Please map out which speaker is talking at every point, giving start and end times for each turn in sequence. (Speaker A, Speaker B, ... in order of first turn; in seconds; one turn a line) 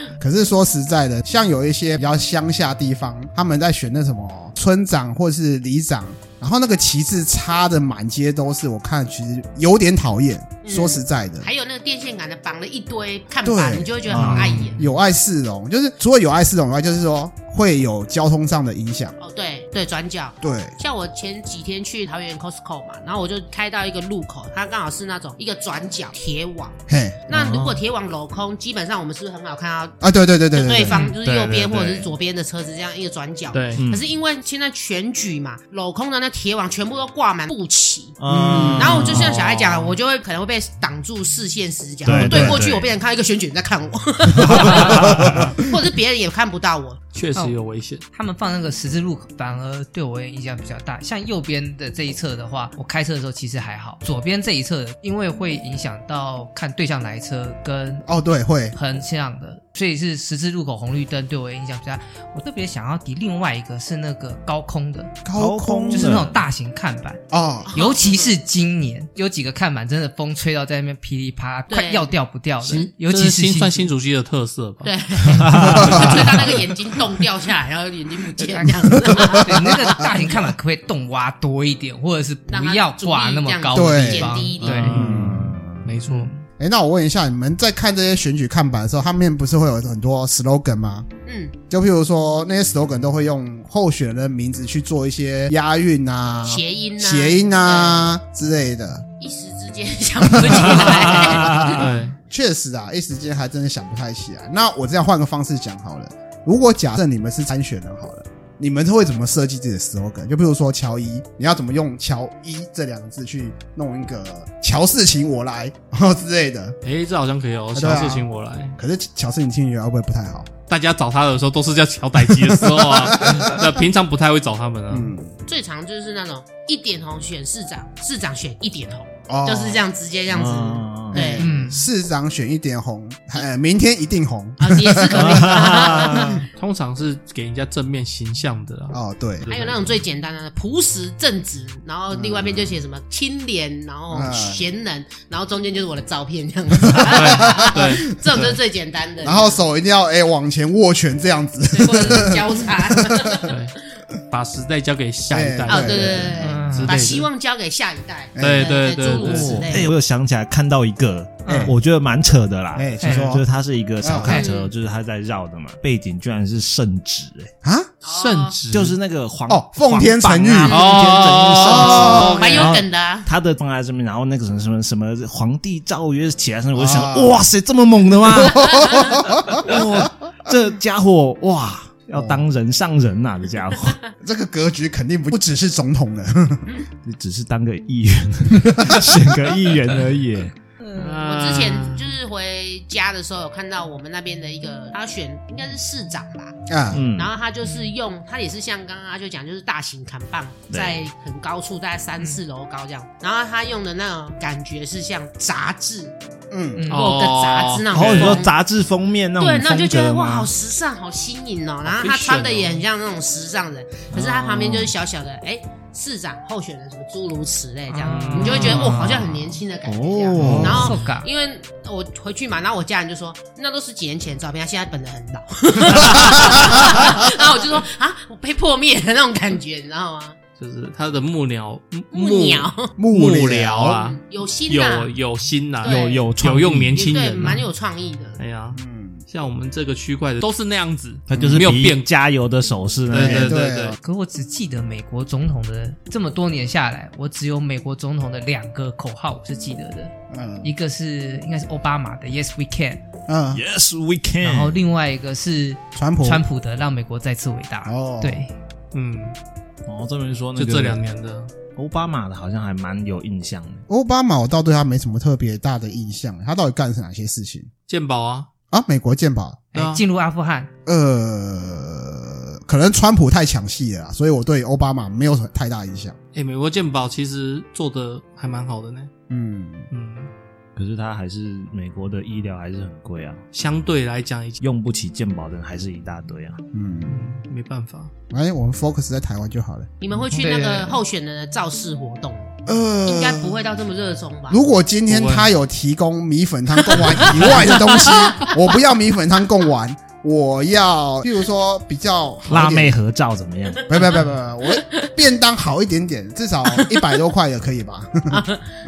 Speaker A: 0.2-11.5
Speaker B: 10.6-14.9
Speaker A: 13.4-14.2
Speaker C: 14.1-14.6
Speaker D: 14.1-14.8
Speaker A: 14.8-19.2
Speaker B: 19.2-30.0
Speaker A: 20.4-20.8
Speaker A: 26.9-27.3
Speaker C: 27.4-27.7
Speaker A: 30.0-31.0
Speaker B: 30.5-38.2
Speaker D: 30.9-32.1
Speaker D: 33.5-33.8
Speaker C: 33.8-34.0
Speaker C: 38.2-39.8
Speaker A: 38.3-39.3
Speaker B: 38.7-47.0
Speaker C: 42.0-42.9
Speaker A: 42.1-42.6
Speaker C: 44.4-45.5
Speaker A: 44.4-45.6
Speaker D: 47.1-48.0
Speaker E: 48.1-58.1
Speaker A: 58.1-58.8
Speaker E: 58.7-65.2
Speaker A: 65.2-66.2
Speaker C: 65.4-66.4
Speaker E: 65.9-73.9
Speaker A: 67.3-67.7
Speaker B: 67.7-68.3
Speaker B: 71.7-72.1
Speaker D: 72.9-74.9
Speaker B: 74.8-80.1
Speaker C: 75.3-76.3
Speaker A: 75.7-76.2
Speaker D: 75.8-76.6
Speaker E: 78.4-85.0
Speaker A: 79.1-79.9
Speaker B: 82.5-85.0
Speaker A: 83.7-85.9
Speaker D: 84.6-85.3
Speaker C: 85.0-85.5
Speaker D: 85.8-86.3
Speaker E: 86.1-86.3
Speaker A: 86.6-91.1
Speaker B: 91.3-91.5
Speaker A: 91.7-99.1
Speaker B: 96.5-98.1
Speaker B: 99.2-101.9
Speaker A: 100.3-116.8
Speaker C: 101.3-101.6
Speaker D: 101.7-102.2
Speaker D: 116.8-118.8
Speaker A: 117.8-118.3
Speaker A: 118.8-120.5
Speaker D: 120.7-125.1
Speaker A: 122.5-123.7
Speaker A: 124.9-125.4
Speaker B: 125.5-131.5
Speaker A: 129.3-129.8
Speaker C: 130.3-131.3
Speaker A: 131.1-136.4
Speaker E: 131.4-131.8
Speaker B: 134.6-136.4
Speaker C: 135.2-136.4
Speaker D: 136.6-140.0
Speaker A: 138.9-139.5
Speaker B: 139.5-149.6
Speaker A: 142.1-142.8
Speaker A: 144.1-144.7
Speaker A: 146.8-148.0
Speaker D: 147.1-148.6
Speaker A: 149.2-153.5
Speaker B: 151.7-153.6
Speaker D: 153.5-153.8
Speaker D: 154.3-157.3
Speaker A: 155.3-156.6
Speaker B: 155.7-159.9
Speaker E: 156.4-157.2
Speaker A: 158.4-158.8
Speaker D: 158.4-159.8
Speaker C: 159.1-167.5
Speaker E: 161.4-161.7
Speaker A: 161.5-161.7
Speaker A: 162.8-163.4
Speaker A: 164.0-164.4
Speaker B: 164.3-164.7
Speaker A: 167.6-167.9
Speaker B: 168.0-168.6
Speaker D: 168.1-169.0
Speaker C: 168.7-184.0
Speaker A: 169.5-170.8
Speaker D: 170.7-172.8
Speaker B: 170.7-171.1
Speaker A: 171.7-172.4
Speaker B: 171.8-173.3
Speaker A: 176.8-177.4
Speaker A: 178.3-179.9
Speaker A: 182.2-182.4
Speaker A: 184.2-186.8
Speaker C: 187.0-190.5
Speaker A: 188.6-189.2
Speaker E: 190.8-191.2
Speaker D: 190.9-192.2
Speaker B: 191.2-196.6
Speaker A: 196.7-197.0
Speaker C: 196.9-197.3
Speaker B: 197.1-206.2
Speaker C: 200.7-201.1
Speaker A: 206.5-206.8
Speaker E: 206.8-207.1
Speaker D: 206.9-208.4
Speaker B: 206.9-208.6
Speaker C: 207.9-210.5
Speaker B: 209.4-230.4
Speaker D: 211.8-212.8
Speaker C: 214.1-214.9
Speaker E: 217.9-218.9
Speaker D: 218.1-219.6
Speaker C: 219.8-220.9
Speaker A: 220.4-220.8
Speaker E: 220.6-221.3
Speaker A: 226.2-226.7
Speaker D: 230.6-237.7
Speaker B: 232.1-232.9
Speaker A: 233.0-234.0
Speaker B: 234.0-235.1
Speaker B: 235.8-236.3
Speaker C: 235.8-237.2
Speaker B: 236.9-238.4
Speaker D: 238.4-242.1
Speaker A: 238.8-239.2
Speaker C: 241.3-243.6
Speaker A: 241.4-241.6
Speaker D: 243.1-244.0
Speaker A: 243.1-244.0
Speaker E: 244.0-253.0
Speaker A: 250.3-250.7
Speaker A: 253.3-253.6
Speaker C: 253.5-254.8
Speaker E: 254.4-258.5
Speaker A: 255.9-256.4
Speaker A: 257.9-258.4
Speaker D: 258.9-259.4
Speaker C: 259.9-261.0
Speaker D: 260.6-261.5
Speaker C: 261.7-263.9
Speaker A: 263.9-267.7
Speaker D: 267.9-268.5
Speaker A: 268.7-269.7
Speaker D: 269.7-270.0
Speaker E: 269.7-270.7
Speaker A: 270.9-276.2
Speaker D: 276.3-279.1
Speaker A: 279.3-279.9
Speaker D: 279.9-280.3
Speaker C: 280.8-283.4
Speaker D: 283.5-284.6
Speaker C: 284.6-286.6
Speaker A: 286.7-287.4
Speaker D: 287.1-288.1
Speaker A: 288.3-289.9
Speaker B: 290.0-292.5
Speaker E: 290.4-291.0
Speaker A: 292.7-293.6
Speaker B: 293.1-294.6
Speaker A: 294.5-303.0
Speaker D: 295.1-295.5
Speaker B: 296.9-298.6
Speaker C: 302.5-303.9
Speaker A: 303.9-308.4
Speaker B: 303.9-304.2
Speaker B: 306.7-307.0
Speaker B: 308.3-308.6